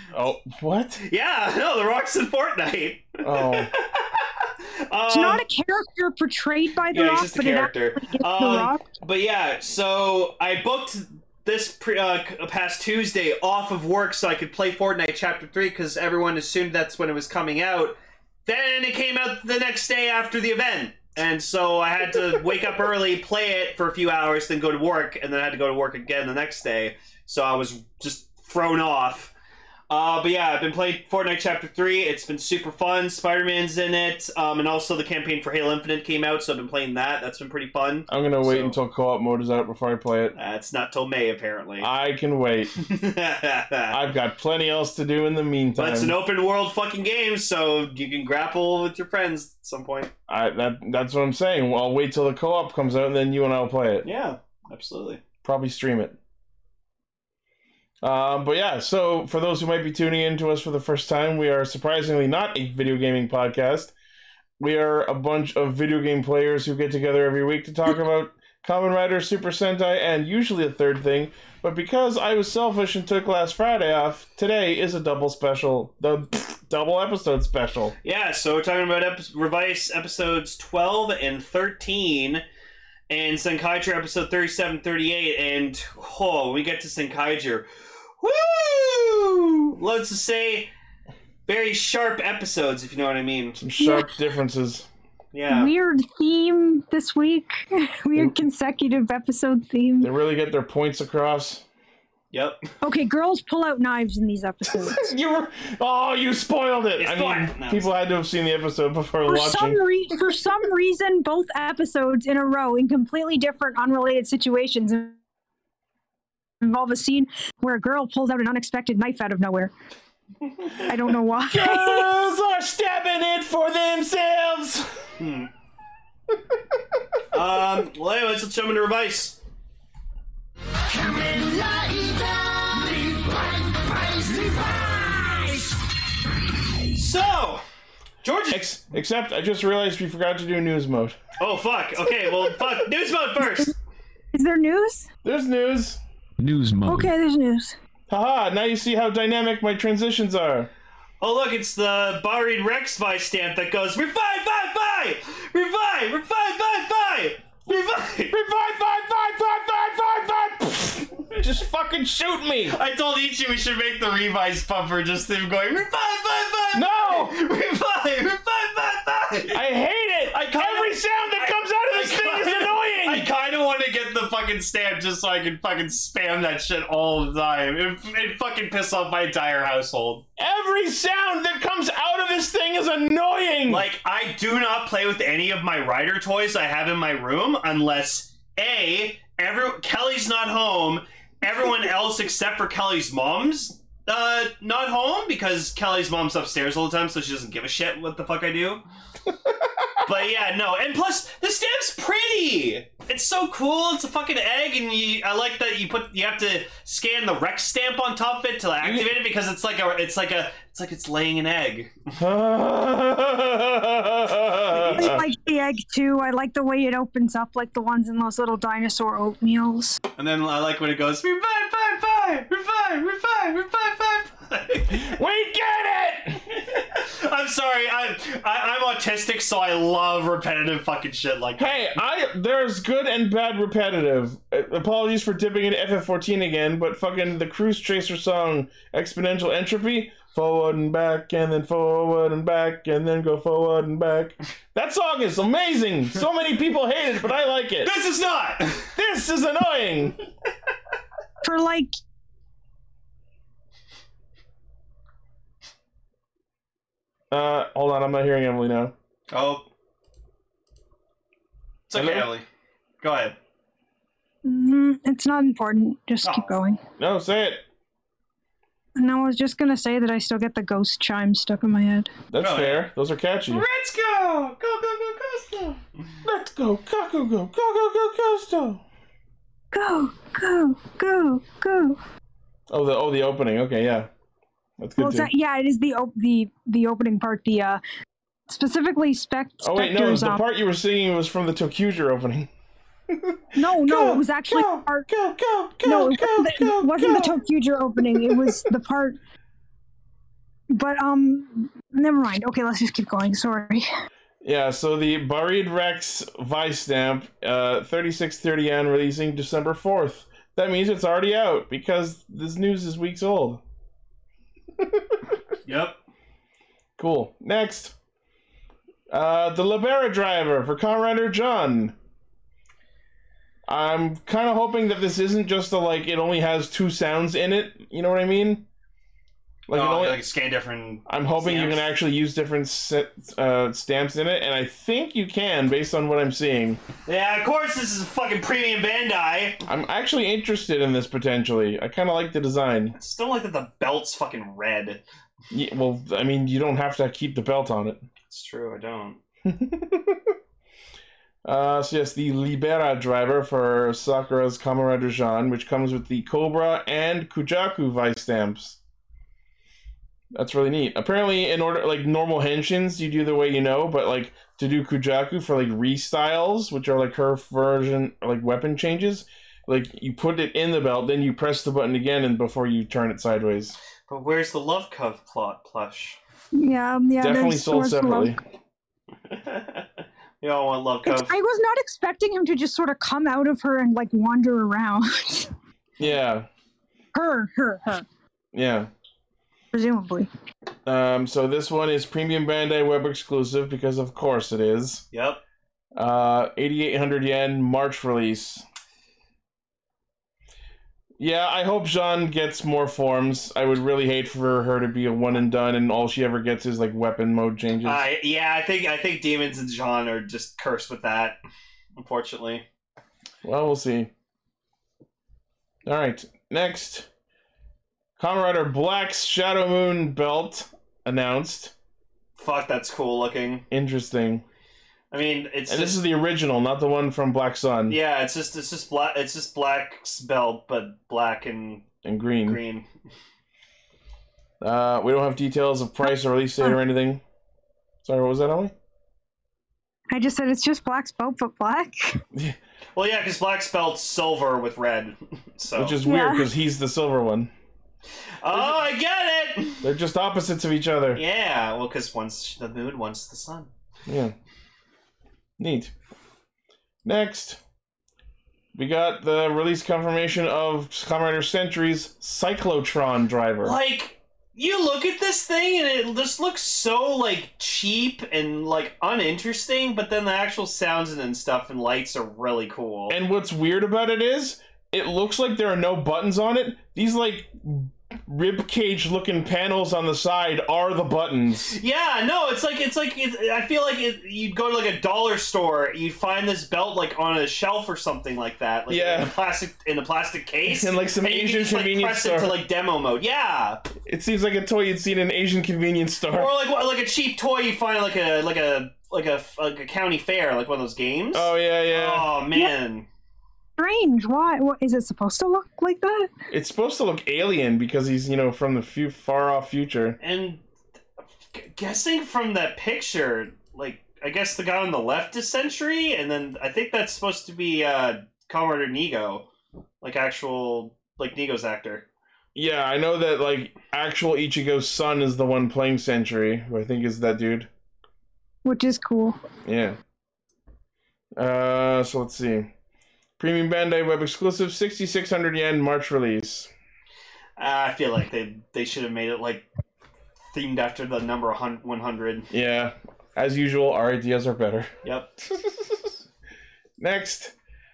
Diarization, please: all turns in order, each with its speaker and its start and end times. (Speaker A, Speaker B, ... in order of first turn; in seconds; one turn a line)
Speaker A: 0.1-1.0
Speaker B: 1.0-5.4
Speaker A: 3.2-3.7
Speaker C: 5.1-8.9
Speaker B: 6.9-29.3
Speaker B: 29.9-38.8
Speaker A: 38.1-40.3
Speaker B: 40.3-41.9
Speaker A: 41.8-42.8
Speaker B: 42.8-44.0
Speaker A: 43.9-46.1
Speaker B: 45.8-50.1
Speaker A: 50.3-54.1
Speaker B: 54.0-55.2
Speaker A: 55.4-56.1
Speaker A: 58.0-63.9
Speaker A: 64.6-77.9
Speaker B: 78.0-82.4
Speaker B: 83.1-87.7
Speaker B: 88.2-90.7
Speaker B: 91.5-93.6
Speaker A: 93.6-94.9
Speaker C: 93.8-94.1
Speaker B: 95.3-95.7
Speaker C: 95.5-100.1
Speaker A: 100.0-101.6
Speaker B: 102.3-102.6
Speaker C: 102.8-105.1
Speaker A: 104.7-109.8
Speaker B: 107.0-107.9
Speaker C: 109.2-115.2
Speaker C: 116.6-119.7
Speaker C: 120.8-122.1
Speaker A: 120.9-124.9
Speaker B: 125.2-125.5
Speaker B: 127.3-129.4
Speaker D: 130.8-135.8
Speaker B: 136.9-137.6
Speaker B: 138.2-138.7
Speaker A: 138.5-141.2
Speaker B: 141.4-143.7
Speaker C: 144.3-145.1
Speaker A: 145.2-146.0
Speaker D: 146.4-147.1
Speaker C: 146.8-147.8
Speaker A: 148.1-150.7
Speaker B: 151.2-158.3
Speaker A: 158.3-162.8
Speaker B: 162.7-169.6
Speaker A: 166.7-167.4
Speaker A: 169.5-173.3
Speaker B: 170.3-180.2
Speaker A: 180.4-183.8
Speaker B: 183.7-198.8
Speaker A: 199.4-200.0
Speaker B: 200.0-211.9
Speaker A: 208.8-209.1
Speaker A: 212.2-215.2
Speaker B: 214.7-215.1
Speaker C: 214.9-220.0
Speaker B: 220.2-225.1
Speaker A: 224.9-226.4
Speaker B: 226.5-232.0
Speaker A: 231.6-247.9
Speaker B: 247.8-248.9
Speaker A: 248.9-250.2
Speaker C: 251.4-251.9
Speaker A: 257.3-258.9
Speaker B: 259.3-259.6
Speaker B: 261.9-262.4
Speaker A: 261.9-262.3
Speaker B: 263.0-263.4
Speaker C: 264.4-266.8
Speaker B: 266.2-266.5
Speaker A: 267.0-267.6
Speaker C: 268.9-272.1
Speaker A: 272.3-273.6
Speaker B: 272.4-272.9
Speaker B: 273.5-275.8
Speaker A: 276.2-278.8
Speaker C: 279.7-282.0
Speaker A: 282.7-284.1
Speaker A: 284.8-285.3
Speaker C: 285.0-287.8
Speaker C: 288.5-290.4
Speaker A: 289.6-292.5
Speaker A: 293.1-297.3
Speaker C: 293.5-295.1
Speaker C: 295.8-299.2
Speaker A: 298.0-298.6
Speaker C: 300.7-303.9
Speaker A: 304.4-313.6
Speaker A: 314.8-315.2
Speaker B: 315.6-316.0
Speaker A: 317.0-317.9
Speaker A: 319.1-321.9
Speaker A: 323.6-328.6
Speaker A: 329.7-330.2
Speaker B: 329.7-331.9
Speaker A: 331.1-336.8
Speaker B: 337.1-339.6
Speaker A: 339.6-342.9
Speaker B: 342.9-345.0
Speaker A: 345.5-348.0
Speaker B: 348.3-349.2
Speaker A: 349.4-350.3
Speaker A: 351.4-358.8
Speaker A: 360.3-373.8
Speaker B: 374.1-376.2
Speaker C: 376.5-378.4
Speaker A: 377.2-378.4
Speaker B: 379.3-379.9
Speaker B: 380.4-381.3
Speaker C: 381.0-385.5
Speaker A: 386.0-386.5
Speaker C: 387.1-388.0
Speaker A: 388.5-388.9
Speaker C: 389.7-390.3
Speaker A: 390.9-395.0
Speaker B: 395.1-395.4
Speaker A: 395.9-398.6
Speaker A: 401.2-408.0
Speaker B: 407.8-411.4
Speaker B: 412.0-412.6
Speaker A: 413.4-414.1
Speaker A: 415.8-417.1
Speaker A: 418.2-421.7
Speaker B: 422.4-423.6
Speaker A: 423.7-424.4
Speaker B: 425.1-426.0
Speaker A: 425.7-428.0
Speaker B: 427.9-431.9
Speaker A: 432.0-432.6
Speaker B: 432.4-432.9
Speaker A: 434.6-437.2
Speaker A: 438.0-438.7
Speaker C: 440.1-442.2
Speaker B: 442.9-445.9
Speaker A: 445.7-447.5
Speaker C: 446.0-446.5
Speaker B: 448.4-449.8
Speaker A: 448.5-448.8
Speaker A: 449.8-451.2
Speaker B: 451.1-453.7
Speaker A: 454.1-454.3
Speaker A: 455.6-455.9
Speaker A: 457.0-457.6
Speaker A: 458.7-463.8
Speaker B: 463.6-473.2
Speaker A: 473.1-481.8
Speaker B: 481.7-493.8
Speaker A: 488.9-489.3
Speaker A: 490.6-492.6
Speaker A: 494.0-496.5
Speaker B: 496.3-503.1
Speaker A: 501.3-502.3
Speaker C: 503.8-506.3
Speaker A: 506.5-510.2
Speaker B: 510.2-510.6
Speaker B: 511.5-519.5
Speaker B: 520.0-522.1
Speaker A: 522.5-527.7
Speaker C: 528.6-529.4
Speaker A: 529.6-530.0
Speaker A: 531.4-532.7
Speaker A: 533.4-536.7
Speaker B: 537.6-539.6
Speaker B: 540.5-542.5
Speaker A: 542.5-544.9
Speaker B: 545.0-545.3
Speaker A: 545.4-546.1
Speaker A: 547.0-547.5